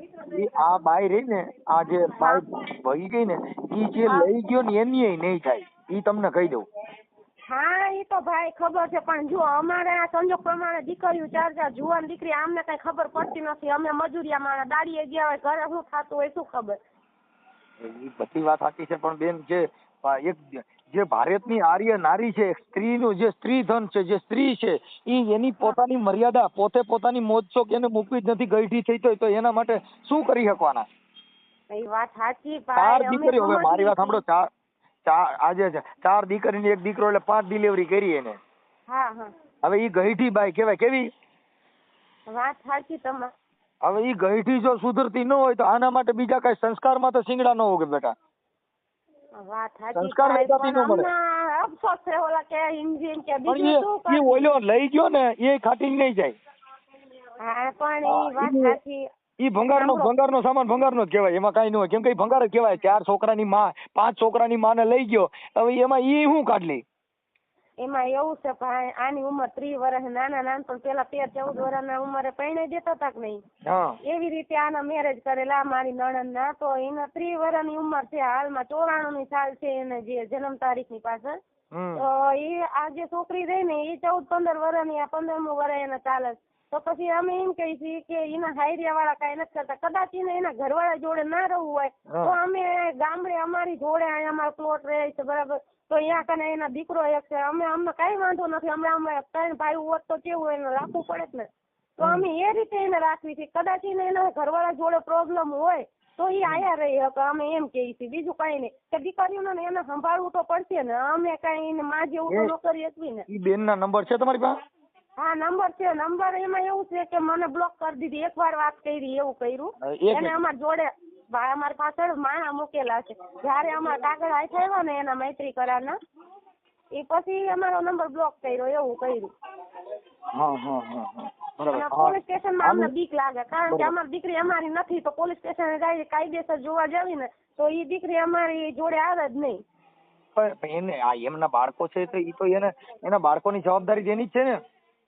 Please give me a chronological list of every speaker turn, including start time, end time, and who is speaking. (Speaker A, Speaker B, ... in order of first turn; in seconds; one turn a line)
Speaker A: 0.2-6.7
Speaker B: 2.2-2.4
Speaker B: 3.9-4.3
Speaker B: 7.5-16.8
Speaker A: 17.8-30.9
Speaker B: 31.7-34.2
Speaker A: 32.8-34.5
Speaker A: 35.0-38.4
Speaker B: 38.9-39.3
Speaker A: 39.6-41.1
Speaker B: 42.3-43.3
Speaker A: 43.8-48.1
Speaker B: 49.4-54.5
Speaker A: 50.0-51.1
Speaker A: 53.5-56.4
Speaker B: 57.4-59.1
Speaker A: 58.1-58.8
Speaker A: 59.4-66.8
Speaker B: 59.7-60.1
Speaker B: 67.8-73.4
Speaker A: 73.7-74.0
Speaker B: 74.1-81.4
Speaker A: 81.7-82.0
Speaker B: 82.0-113.3
Speaker A: 92.1-92.3
Speaker A: 112.3-112.5
Speaker A: 113.3-114.6
Speaker B: 115.2-126.0
Speaker A: 119.8-120.3
Speaker B: 126.9-129.3
Speaker A: 130.3-132.9
Speaker B: 131.7-139.6
Speaker A: 133.7-133.9
Speaker A: 140.3-144.6